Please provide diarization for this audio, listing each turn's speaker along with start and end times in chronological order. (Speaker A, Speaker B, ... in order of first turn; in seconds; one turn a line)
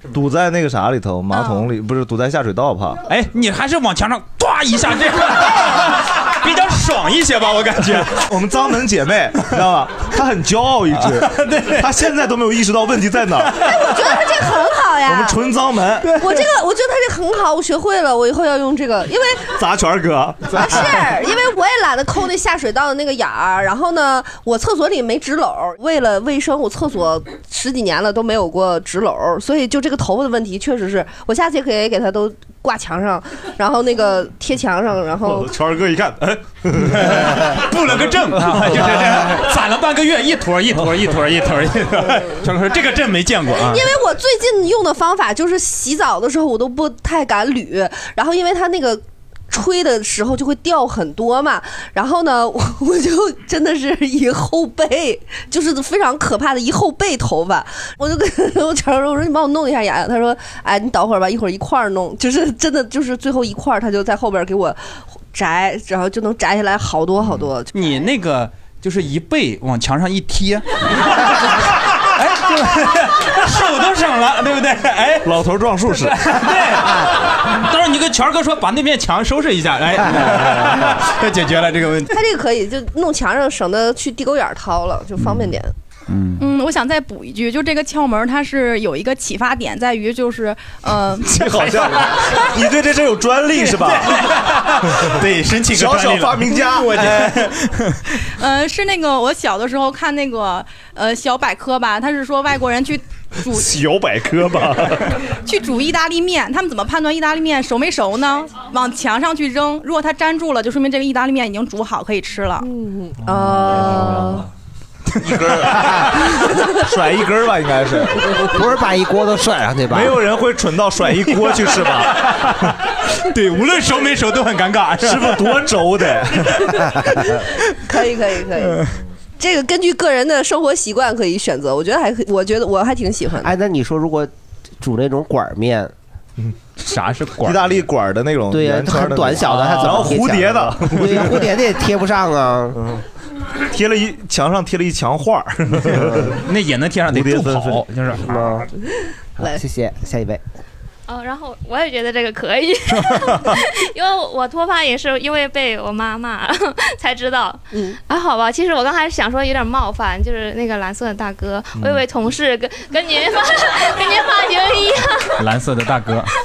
Speaker A: 0.1-3.0
Speaker B: 3.1-8.2
Speaker A: 8.1-13.8
Speaker B: 11.0-11.9
Speaker C: 13.6-15.4
Speaker A: 15.0-16.2
Speaker C: 16.1-19.5
Speaker A: 19.6-21.0
Speaker C: 20.5-35.5
Speaker A: 35.2-37.6
Speaker B: 36.9-43.9
Speaker A: 38.4-39.2
Speaker C: 43.5-67.8
Speaker B: 67.7-75.3
Speaker A: 75.2-76.2
Speaker B: 75.9-82.1
Speaker C: 82.1-85.7
Speaker B: 85.2-85.5
Speaker B: 86.1-86.4
Speaker D: 86.4-91.9
Speaker A: 91.2-94.2
Speaker B: 93.7-98.0
Speaker A: 95.7-97.4
Speaker D: 98.2-103.7
Speaker A: 103.5-105.2
Speaker D: 105.5-112.7
Speaker C: 112.6-114.5
Speaker B: 113.2-114.4
Speaker A: 115.2-118.3
Speaker E: 118.5-120.2
Speaker A: 119.9-122.3
Speaker B: 123.2-125.4
Speaker A: 125.0-126.6
Speaker E: 126.8-127.5
Speaker C: 127.8-128.8
Speaker C: 129.4-133.5
Speaker E: 133.4-135.9
Speaker B: 136.8-137.9
Speaker A: 137.4-141.5
Speaker E: 138.5-142.8
Speaker B: 139.7-140.0
Speaker A: 142.8-143.0
Speaker A: 143.6-146.4
Speaker B: 146.4-148.3
Speaker A: 147.1-147.8
Speaker E: 148.2-148.7
Speaker E: 149.4-150.4
Speaker F: 151.1-165.4
Speaker B: 153.0-153.5
Speaker A: 161.8-162.0
Speaker B: 165.4-166.3